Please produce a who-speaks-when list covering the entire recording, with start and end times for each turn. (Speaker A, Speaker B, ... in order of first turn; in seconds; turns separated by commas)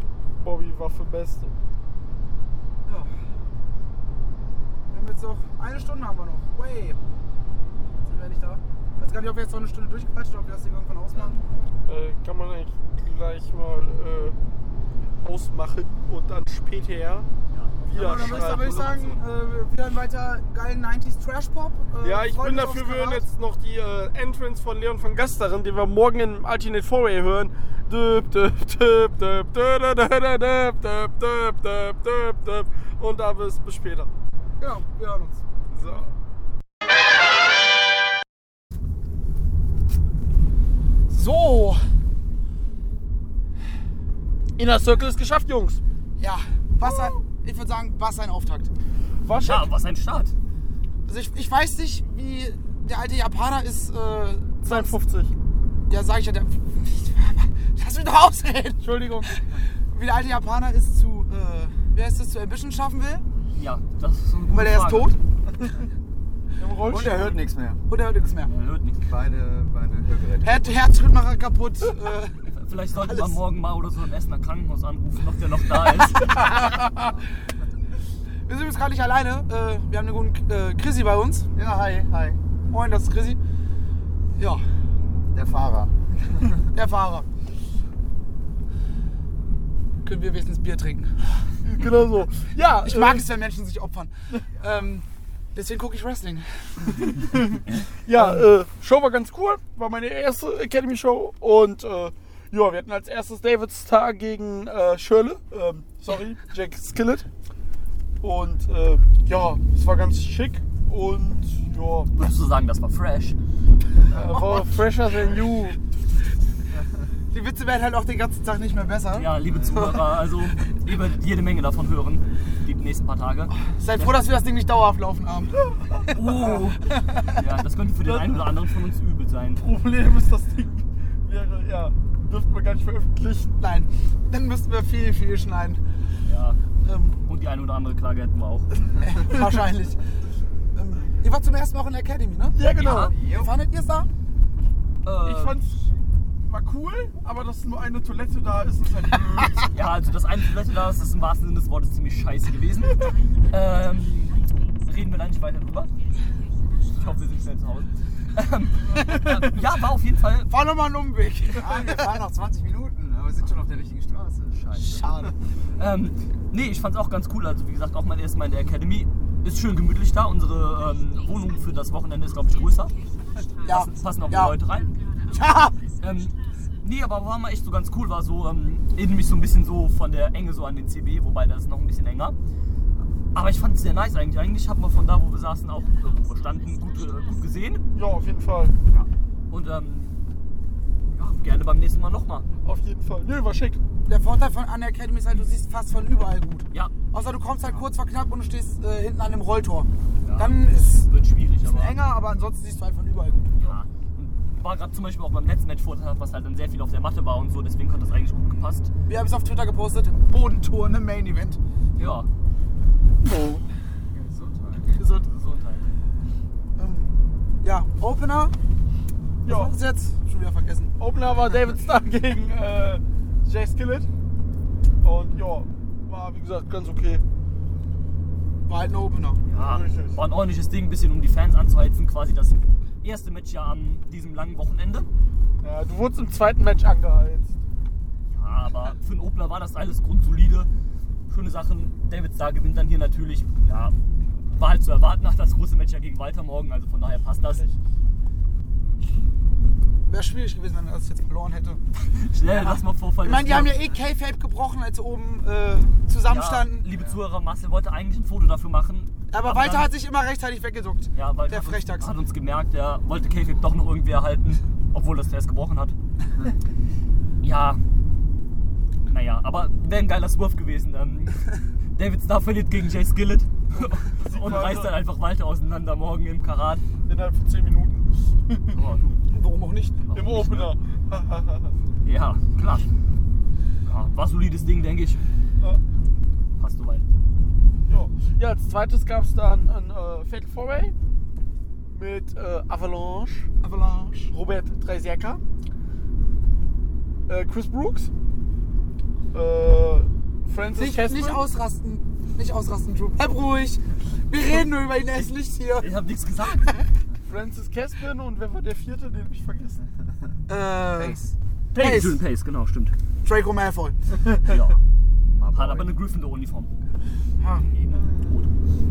Speaker A: 0.4-1.5, Speaker B: 2.9-3.1, Speaker B: 4.9-7.0, Speaker B: 8.0-11.3, Speaker C: 11.1-11.4, Speaker A: 11.8-14.4, Speaker A: 15.2-17.3, Speaker C: 17.5-19.2, Speaker A: 17.8-18.9, Speaker B: 17.9-23.2, Speaker A: 22.0-34.1, Speaker B: 34.6-35.4, Speaker A: 35.7-36.1, Speaker B: 41.1-41.8, Speaker A: 44.6-45.8, Speaker B: 46.2-48.7, Speaker A: 46.8-47.1, Speaker A: 49.2-49.7, Speaker C: 49.4-50.3, Speaker B: 51.0-54.9, Speaker A: 54.6-55.3, Speaker B: 55.9-63.2, Speaker C: 63.5-65.1, Speaker B: 64.5-65.2, Speaker A: 66.6-67.4, Speaker D: 66.8-67.8, Speaker B: 67.9-68.5, Speaker C: 68.5-69.0, Speaker D: 69.0-70.8, Speaker B: 70.4-72.5, Speaker C: 72.5-76.5, Speaker B: 73.0-73.4, Speaker B: 76.3-76.9, Speaker D: 76.9-77.4, Speaker B: 78.5-81.5, Speaker D: 81.5-82.4, Speaker B: 82.7-83.4, Speaker B: 84.4-84.6, Speaker D: 85.3-86.5, Speaker B: 86.7-87.3, Speaker B: 90.0-91.2, Speaker A: 91.6-93.2, Speaker B: 92.8-97.2, Speaker A: 97.2-107.3, Speaker A: 108.2-112.1, Speaker C: 112.1-113.3, Speaker A: 114.1-115.8, Speaker B: 114.1-114.7, Speaker B: 117.3-120.1, Speaker C: 119.1-124.2, Speaker B: 123.7-127.4, Speaker C: 126.1-129.6, Speaker A: 128.0-128.4, Speaker A: 129.6-133.6, Speaker B: 133.6-135.8, Speaker C: 136.2-136.6, Speaker B: 136.8-137.2, Speaker C: 137.2-138.7, Speaker B: 139.0-140.0, Speaker B: 140.7-142.6, Speaker A: 142.5-143.2, Speaker C: 142.8-143.1, Speaker D: 142.9-143.6, Speaker B: 143.2-144.1, Speaker C: 145.0-145.6, Speaker A: 145.2-145.9, Speaker A: 146.4-149.7, Speaker C: 149.7-155.9, Speaker C: 156.8-160.5, Speaker B: 159.0-159.6, Speaker B: 160.5-162.2, Speaker D: 161.5-165.3, Speaker C: 164.6-164.8, Speaker B: 164.8-165.3, Speaker C: 165.8-172.9, Speaker C: 173.6-174.9, Speaker B: 173.7-174.6, Speaker B: 175.3-175.8, Speaker C: 176.0-182.3, Speaker C: 183.3-187.8, Speaker A: 187.9-188.7, Speaker C: 188.9-190.2, Speaker C: 191.1-192.5, Speaker A: 192.6-193.8, Speaker B: 194.1-201.1, Speaker C: 200.2-201.9, Speaker B: 201.6-203.7, Speaker C: 203.6-208.9, Speaker B: 209.1-211.6, Speaker C: 211.9-212.3, Speaker A: 213.2-213.6, Speaker D: 214.1-215.0, Speaker B: 214.9-215.3, Speaker C: 215.1-215.9, Speaker B: 216.8-217.1, Speaker B: 217.6-218.5, Speaker B: 219.4-220.9, Speaker A: 219.4-219.7, Speaker A: 221.0-224.1, Speaker A: 225.0-227.2, Speaker B: 228.7-229.4, Speaker C: 229.5-235.1, Speaker A: 229.5-230.2, Speaker A: 235.6-237.6, Speaker C: 238.3-240.7, Speaker C: 241.3-243.9, Speaker C: 244.5-247.6, Speaker A: 247.5-247.8, Speaker B: 250.1-251.8, Speaker C: 252.1-253.8, Speaker B: 252.6-256.9, Speaker C: 256.3-259.9, Speaker B: 259.3-262.1, Speaker C: 261.1-265.9, Speaker C: 267.4-267.8, Speaker C: 269.0-276.8, Speaker A: 274.0-275.0, Speaker A: 277.1-278.8, Speaker C: 278.7-279.2, Speaker B: 279.3-280.1, Speaker C: 280.1-280.7, Speaker A: 280.1-281.7, Speaker C: 282.0-282.9, Speaker C: 283.8-285.2, Speaker C: 286.6-287.1, Speaker A: 287.9-290.9, Speaker A: 291.9-293.5, Speaker B: 293.6-294.3, Speaker A: 294.3-295.4, Speaker A: 297.3-298.1, Speaker A: 299.3-301.4, Speaker B: 300.7-305.9, Speaker C: 305.2-306.7, Speaker A: 307.2-309.8, Speaker B: 310.5-311.2, Speaker D: 310.9-311.3, Speaker C: 311.7-312.9, Speaker B: 311.8-312.2, Speaker A: 311.8-312.0, Speaker B: 313.2-314.4, Speaker C: 314.4-314.8, Speaker D: 315.3-315.9, Speaker C: 315.5-316.7, Speaker B: 317.4-317.7, Speaker C: 317.9-318.5, Speaker A: 317.9-318.3